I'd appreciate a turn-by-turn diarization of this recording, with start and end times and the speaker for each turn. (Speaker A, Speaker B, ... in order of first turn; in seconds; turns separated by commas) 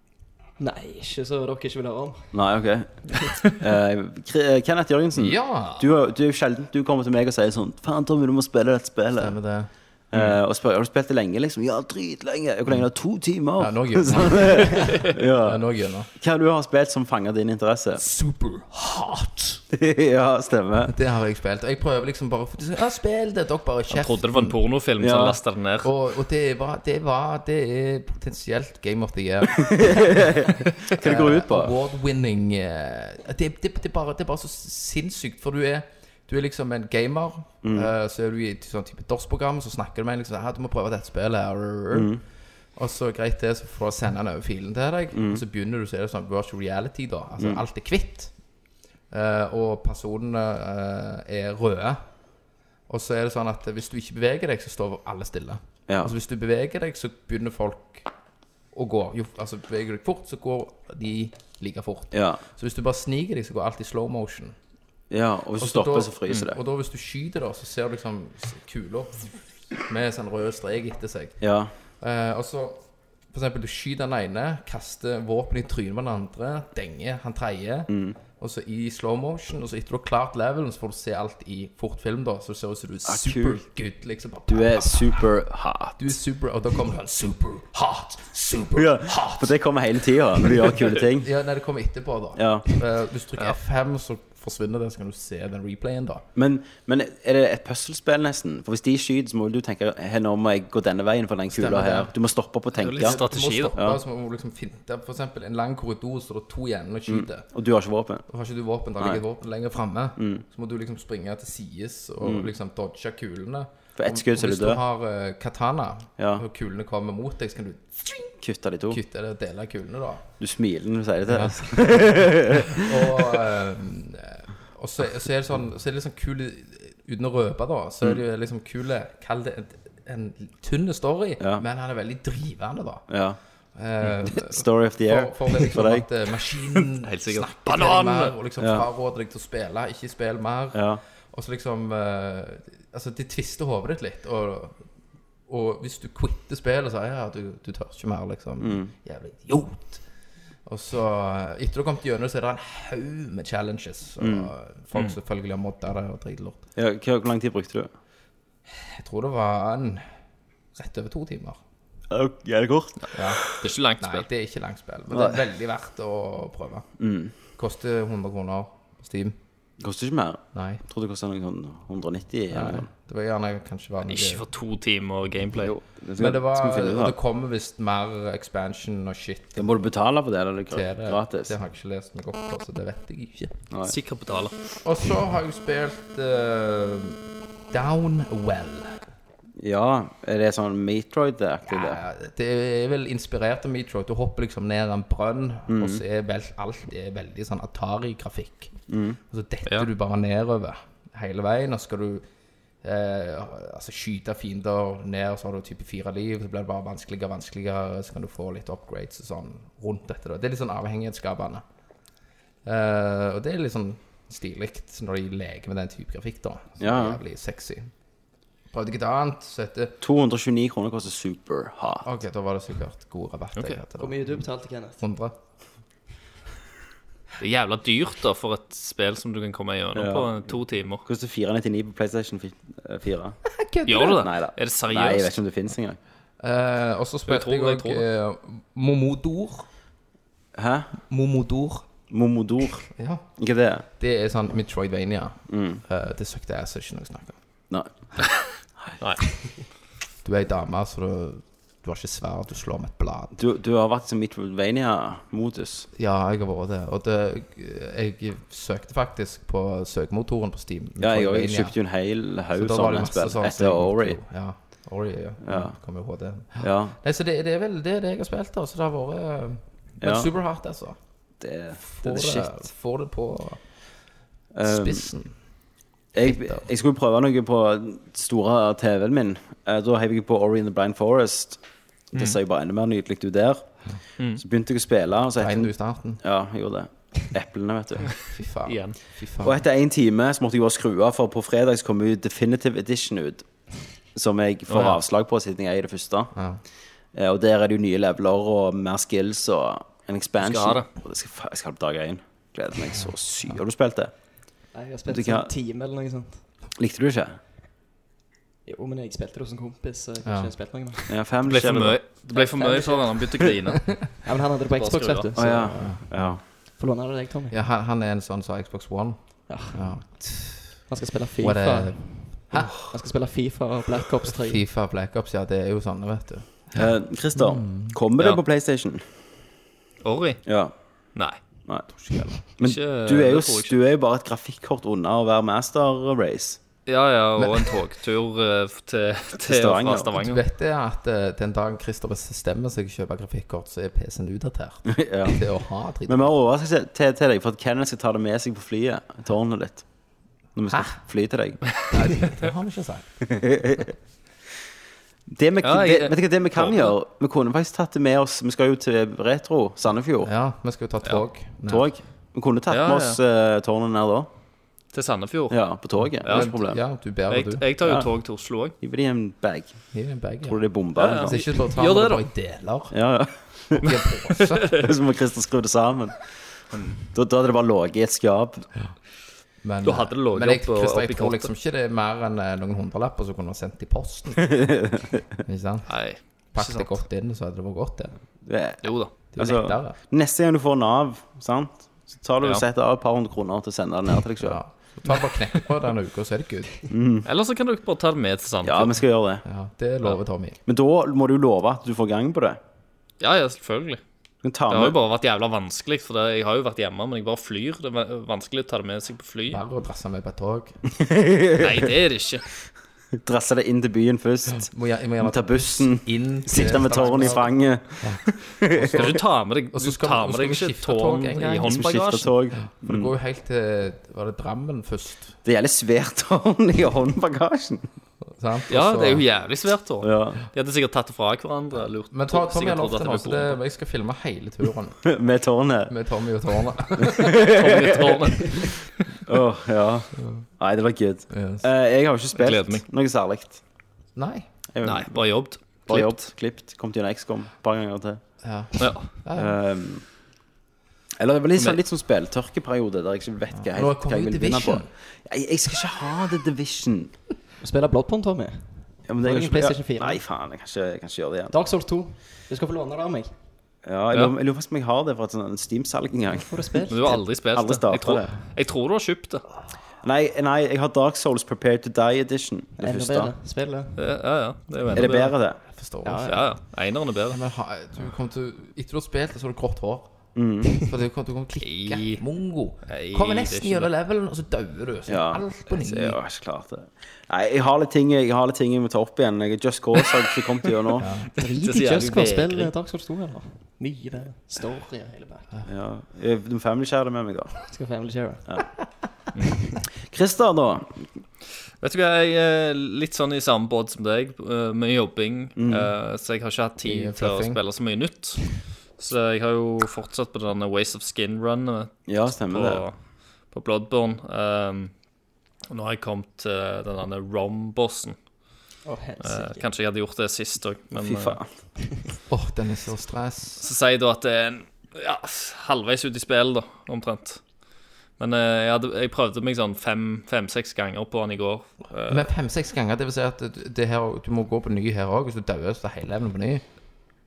Speaker A: 0.6-2.3, Speaker B: 2.3-9.3, Speaker C: 5.1-5.9, Speaker C: 9.1-10.4, Speaker B: 10.1-15.6, Speaker C: 13.6-16.1, Speaker B: 16.2-18.0, Speaker C: 18.0-19.6, Speaker B: 19.7-20.9, Speaker C: 20.9-24.5, Speaker D: 23.9-25.9, Speaker B: 25.0-25.4, Speaker C: 25.8-42.1, Speaker B: 29.6-31.7, Speaker B: 37.6-37.9, Speaker B: 41.9-42.2, Speaker C: 42.8-48.3, Speaker B: 45.1-45.4, Speaker C: 49.1-52.0, Speaker C: 52.9-58.1, Speaker B: 55.9-56.1, Speaker C: 58.7-64.5, Speaker B: 62.1-62.4, Speaker B: 65.1-66.6, Speaker C: 65.6-71.4, Speaker B: 71.4-71.7, Speaker C: 72.0-85.3, Speaker B: 77.9-78.2, Speaker B: 83.0-83.6, Speaker B: 84.5-86.1, Speaker C: 86.0-89.6, Speaker B: 88.8-91.3, Speaker C: 90.3-96.2, Speaker B: 92.3-92.7, Speaker B: 96.3-103.2, Speaker C: 101.5-102.1, Speaker D: 102.7-103.7, Speaker C: 103.0-107.5, Speaker B: 107.1-108.2, Speaker C: 108.3-118.4, Speaker B: 110.2-110.4, Speaker B: 112.2-112.5, Speaker B: 114.0-114.8, Speaker B: 116.2-116.4, Speaker B: 118.4-119.0, Speaker C: 118.9-120.3, Speaker B: 120.4-123.4, Speaker C: 121.2-133.0, Speaker B: 133.1-133.4, Speaker C: 133.7-144.8, Speaker B: 134.1-136.1, Speaker D: 137.0-138.3, Speaker B: 138.6-138.8, Speaker B: 140.7-141.0, Speaker C: 145.5-150.0, Speaker B: 148.6-148.9, Speaker C: 150.7-156.6, Speaker B: 154.2-154.5, Speaker B: 156.8-157.9, Speaker C: 158.7-160.0, Speaker C: 160.7-161.6, Speaker B: 162.1-163.5, Speaker C: 163.1-166.8, Speaker D: 163.6-164.2, Speaker B: 165.1-165.4, Speaker B: 167.0-167.3, Speaker C: 167.6-169.4, Speaker B: 169.8-172.9, Speaker C: 170.5-170.8, Speaker C: 172.5-174.4, Speaker D: 174.1-175.7, Speaker B: 175.6-177.1, Speaker C: 176.2-179.7, Speaker B: 179.6-181.5, Speaker C: 180.7-183.6, Speaker D: 183.8-184.5, Speaker C: 184.8-188.9, Speaker B: 189.6-192.0, Speaker C: 191.7-198.8, Speaker B: 195.7-196.0, Speaker B: 198.9-199.2, Speaker C: 199.3-202.2, Speaker C: 202.8-211.6, Speaker C: 212.6-217.9, Speaker B: 216.8-217.2, Speaker C: 218.7-220.0, Speaker B: 220.0-222.1, Speaker C: 222.0-224.2, Speaker A: 224.0-225.0, Speaker C: 225.0-225.4, Speaker D: 227.4-231.0, Speaker B: 229.9-230.5, Speaker B: 231.0-233.4, Speaker C: 233.4-234.2, Speaker D: 233.8-235.4, Speaker B: 234.2-236.0, Speaker C: 236.4-239.7, Speaker D: 237.3-238.0, Speaker B: 240.6-240.9, Speaker C: 241.0-241.9, Speaker B: 242.1-243.8, Speaker C: 242.9-243.2, Speaker C: 244.0-247.4, Speaker B: 245.5-245.8, Speaker C: 250.2-253.3, Speaker B: 253.3-255.9, Speaker C: 255.9-261.8, Speaker B: 261.0-264.2, Speaker C: 262.5-271.0, Speaker B: 265.4-265.7, Speaker B: 266.6-266.9, Speaker B: 270.0-270.3, Speaker B: 271.4-272.5, Speaker C: 271.8-273.6, Speaker B: 274.5-275.0, Speaker C: 274.6-275.3, Speaker B: 276.1-281.6, Speaker C: 276.2-276.6, Speaker B: 282.1-283.6, Speaker B: 284.4-288.2, Speaker C: 285.4-286.2, Speaker C: 288.2-289.6, Speaker D: 288.6-289.0, Speaker B: 289.4-293.5, Speaker B: 294.1-296.3, Speaker D: 294.7-295.0, Speaker C: 296.3-296.6, Speaker B: 297.1-304.1, Speaker D: 300.4-300.9, Speaker C: 302.9-303.6, Speaker A: 304.7-306.4, Speaker B: 305.1-305.5, Speaker B: 306.8-307.4, Speaker A: 308.6-311.2, Speaker C: 310.2-310.5, Speaker B: 311.1-312.0, Speaker D: 311.5-315.3, Speaker A: 312.3-313.4, Speaker A: 314.2-316.0, Speaker B: 315.3-316.4, Speaker C: 315.7-316.3, Speaker A: 316.8-317.6, Speaker C: 317.5-320.8, Speaker A: 319.5-319.9, Speaker A: 320.9-324.6, Speaker C: 321.4-322.8, Speaker C: 324.3-327.9, Speaker B: 326.7-329.0, Speaker D: 330.0-330.4, Speaker B: 330.4-330.7, Speaker B: 331.7-336.6, Speaker C: 331.9-332.4, Speaker D: 332.6-333.8, Speaker D: 336.9-340.4, Speaker C: 337.4-337.8, Speaker B: 339.4-340.1, Speaker C: 340.1-346.3, Speaker B: 344.9-345.4, Speaker B: 346.1-349.8, Speaker B: 350.5-351.7, Speaker C: 350.7-351.0, Speaker C: 351.9-353.3, Speaker B: 353.3-353.9, Speaker B: 355.3-360.3, Speaker D: 355.6-356.9, Speaker C: 360.2-361.9, Speaker B: 361.7-364.3, Speaker D: 362.7-363.2, Speaker D: 364.9-366.6, Speaker B: 365.5-366.8, Speaker C: 366.0-367.6, Speaker D: 367.3-368.8, Speaker B: 368.8-369.8, Speaker C: 369.9-370.6, Speaker B: 370.4-371.3, Speaker D: 370.9-372.2, Speaker C: 371.2-372.9, Speaker B: 372.9-373.9, Speaker C: 373.7-374.7, Speaker D: 374.3-374.8, Speaker B: 374.7-376.3, Speaker B: 377.0-378.7, Speaker C: 379.6-384.6, Speaker D: 379.8-381.5, Speaker B: 384.5-385.2, Speaker C: 385.4-388.1, Speaker D: 385.9-387.0, Speaker B: 388.4-394.6, Speaker D: 388.8-389.1, Speaker C: 389.3-390.0, Speaker C: 394.4-396.9, Speaker B: 396.9-397.2, Speaker D: 397.2-399.0, Speaker B: 398.6-399.4, Speaker C: 399.4-400.6, Speaker B: 400.6-402.6, Speaker D: 403.2-404.0, Speaker B: 404.4-405.0, Speaker D: 404.7-409.6, Speaker C: 409.5-410.8, Speaker B: 411.0-411.9, Speaker D: 411.6-412.4, Speaker B: 413.2-414.7, Speaker C: 414.5-421.8, Speaker B: 415.2-419.1, Speaker D: 418.9-422.3, Speaker B: 421.6-423.1, Speaker C: 422.6-425.4, Speaker B: 425.4-427.9, Speaker C: 428.3-429.2, Speaker D: 428.7-433.6, Speaker B: 430.0-430.4, Speaker C: 432.1-435.1, Speaker B: 435.1-435.9, Speaker C: 435.9-437.4, Speaker B: 437.0-438.3, Speaker D: 437.5-439.2, Speaker B: 439.2-443.6, Speaker C: 440.2-440.4, Speaker C: 441.3-441.6, Speaker D: 442.3-442.8, Speaker C: 444.1-444.5, Speaker B: 444.7-445.2, Speaker D: 444.8-446.2, Speaker B: 445.9-448.2, Speaker C: 448.4-449.5, Speaker D: 448.8-449.1, Speaker B: 449.3-450.0, Speaker B: 451.2-457.1, Speaker D: 451.5-451.8, Speaker C: 453.5-454.9, Speaker A: 457.6-460.2, Speaker B: 459.1-461.5, Speaker A: 461.5-463.3, Speaker B: 463.8-466.8, Speaker A: 466.3-467.2, Speaker D: 466.9-469.4, Speaker B: 467.5-468.3, Speaker B: 470.0-473.3, Speaker A: 472.8-474.0, Speaker D: 474.0-475.4, Speaker B: 474.9-475.6, Speaker C: 475.7-476.3, Speaker A: 476.0-476.5, Speaker D: 476.3-477.4, Speaker C: 477.3-486.2, Speaker B: 480.3-480.8, Speaker D: 481.6-482.2, Speaker D: 482.9-483.9, Speaker B: 485.1-491.1, Speaker C: 491.0-491.4, Speaker A: 491.4-495.6, Speaker D: 491.4-492.7, Speaker B: 495.6-497.6, Speaker A: 497.7-498.5, Speaker B: 500.1-501.0, Speaker D: 501.8-513.0, Speaker B: 505.6-505.9, Speaker C: 506.8-507.6, Speaker B: 512.1-512.8, Speaker D: 513.5-514.9, Speaker D: 515.7-518.1, Speaker A: 518.9-519.7, Speaker D: 519.2-521.4, Speaker B: 521.0-521.5, Speaker C: 522.3-523.6, Speaker D: 523.6-527.4, Speaker D: 528.2-532.3, Speaker C: 532.1-536.6